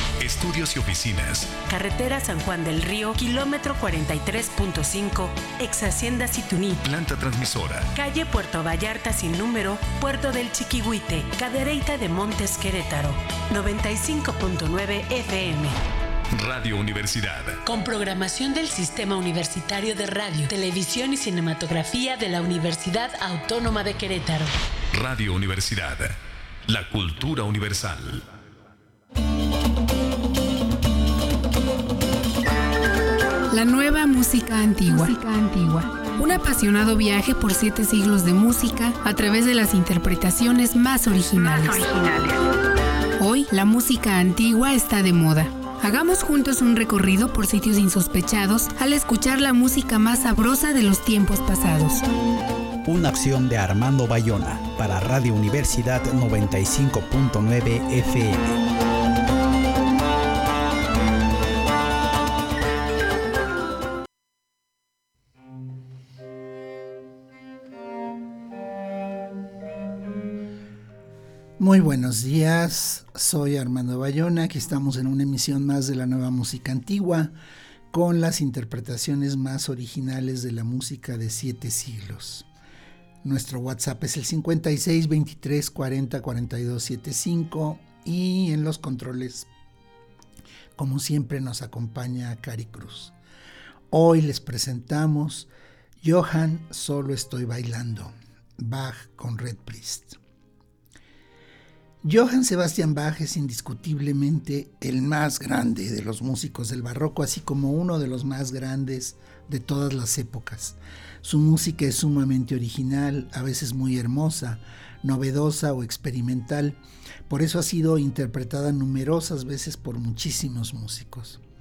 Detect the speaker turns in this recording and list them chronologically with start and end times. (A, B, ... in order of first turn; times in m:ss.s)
0:00.2-0:01.5 A
0:01.7-0:06.8 B
0:06.8-0:07.9 A
0:07.9-0:15.8 B
0:16.3-0:17.6 A
0:17.6-0:24.5 B
0:24.9-0:28.2 A
0:33.5-0:42.4 C
0:43.2-0:52.0 C
0:52.8-0:58.6 D
1:11.6-1:17.3 E
1:17.9-1:22.5 E
1:23.2-1:29.5 E
1:30.8-1:33.1 E
1:33.9-1:40.2 E
1:42.0-2:01.4 E